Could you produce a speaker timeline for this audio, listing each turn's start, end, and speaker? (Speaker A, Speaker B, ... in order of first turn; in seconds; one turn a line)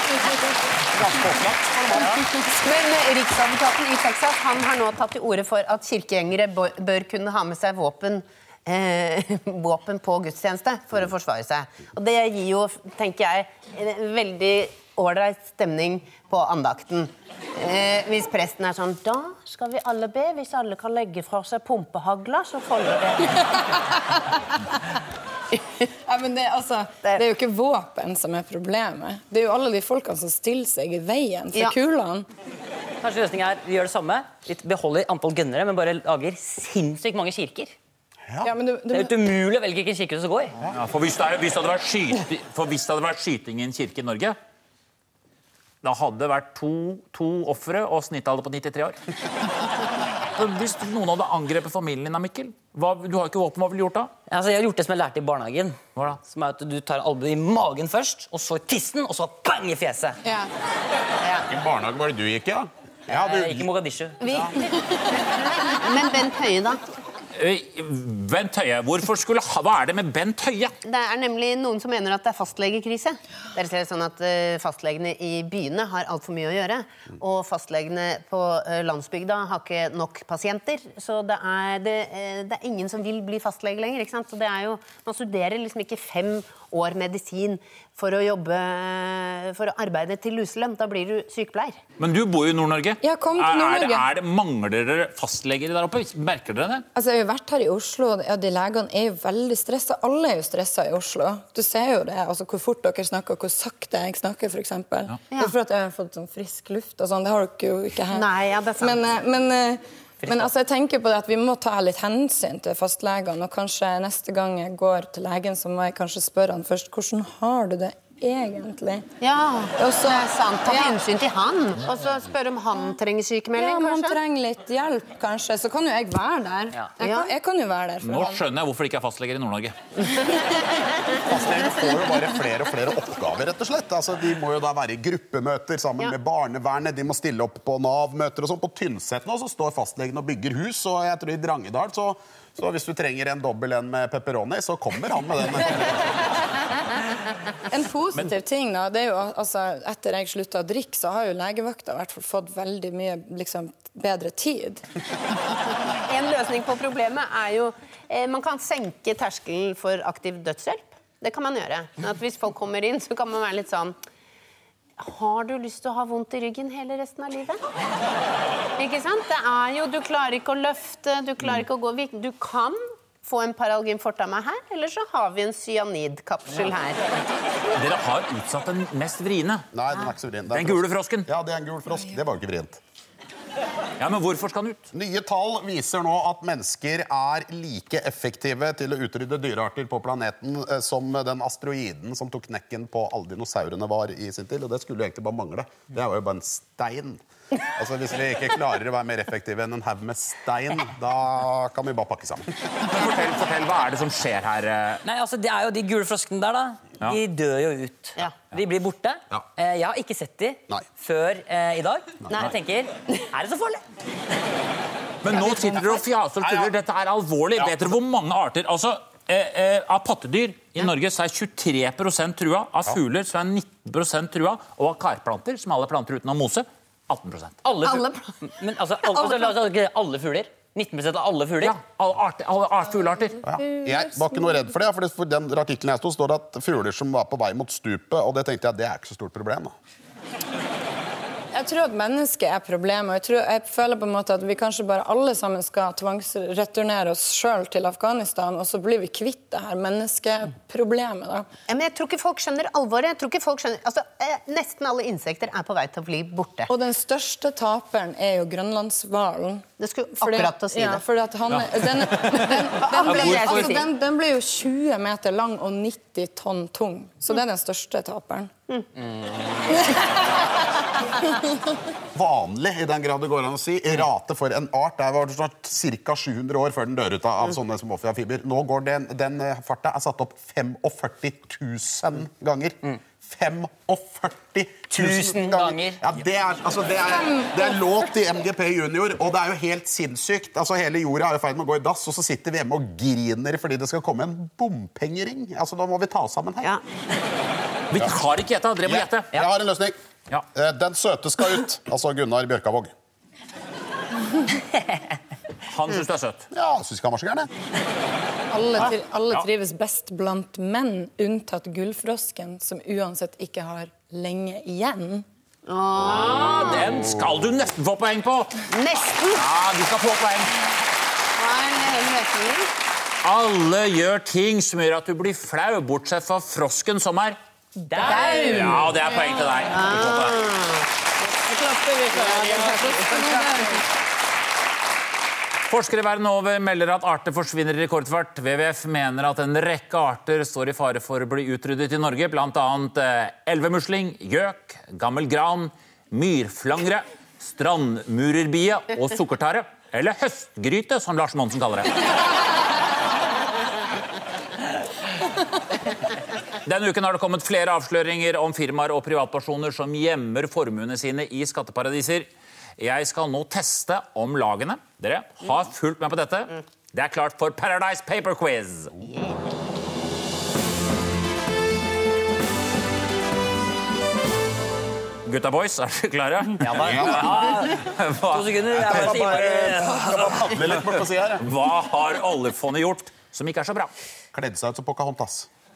Speaker A: 0.9-2.3
Speaker B: 2.4-23.6
Speaker C: 26.1-32.3
Speaker D: 33.0-37.8
Speaker C: 38.4-39.1
Speaker D: 38.9-40.5
Speaker E: 40.7-44.4
Speaker E: 45.8-49.0
Speaker E: 50.4-54.1
Speaker D: 54.3-60.2
Speaker C: 60.2-60.5
Speaker B: 61.2-61.5
Speaker A: 61.5-63.7
Speaker D: 63.1-64.2
Speaker B: 64.2-66.8
Speaker E: 67.4-70.7
Speaker B: 70.8-91.8
Speaker E: 92.0-96.8
Speaker C: 93.0-94.0
Speaker C: 97.0-108.3
Speaker B: 108.1-109.0
Speaker C: 108.8-119.1
Speaker D: 110.2-110.5
Speaker B: 119.2-124.2
Speaker C: 119.8-121.0
Speaker C: 123.6-128.4
Speaker B: 127.0-127.3
Speaker E: 128.0-129.8
Speaker A: 131.2-146.1
Speaker C: 147.7-154.8
Speaker B: 156.1-164.0
Speaker B: 165.0-167.6
Speaker B: 168.8-177.1
Speaker E: 177.7-179.7
Speaker A: 179.7-182.8
Speaker E: 180.5-181.3
Speaker E: 184.0-184.8
Speaker A: 184.9-202.5
Speaker E: 202.8-205.0
Speaker D: 205.1-213.8
Speaker E: 215.2-227.6
Speaker A: 216.4-216.7
Speaker D: 227.6-231.8
Speaker B: 227.8-228.3
Speaker B: 229.1-229.5
Speaker E: 231.6-233.4
Speaker A: 233.4-239.7
Speaker C: 241.5-251.5
Speaker B: 251.7-256.7
Speaker C: 256.7-268.5
Speaker B: 259.8-261.0
Speaker B: 262.3-263.9
Speaker E: 263.1-263.6
Speaker C: 269.7-270.1
Speaker A: 272.1-296.8
Speaker D: 284.9-286.0
Speaker C: 287.1-287.6
Speaker E: 297.9-299.3
Speaker A: 298.9-299.9
Speaker A: 300.5-302.9
Speaker E: 305.7-306.5
Speaker A: 306.5-307.5
Speaker C: 308.5-315.2
Speaker B: 315.7-316.9
Speaker E: 316.0-318.7
Speaker B: 318.7-319.4
Speaker E: 319.3-320.6
Speaker B: 321.4-322.7
Speaker E: 323.2-327.4
Speaker D: 327.8-328.8
Speaker B: 328.0-329.0
Speaker E: 328.0-330.4
Speaker B: 329.7-333.7
Speaker C: 333.0-333.3
Speaker E: 335.7-351.9
Speaker E: 356.6-368.9
Speaker B: 369.1-369.4
Speaker E: 375.2-383.9
Speaker D: 376.6-380.4
Speaker A: 376.8-377.5
Speaker A: 378.7-381.5
Speaker A: 384.3-385.5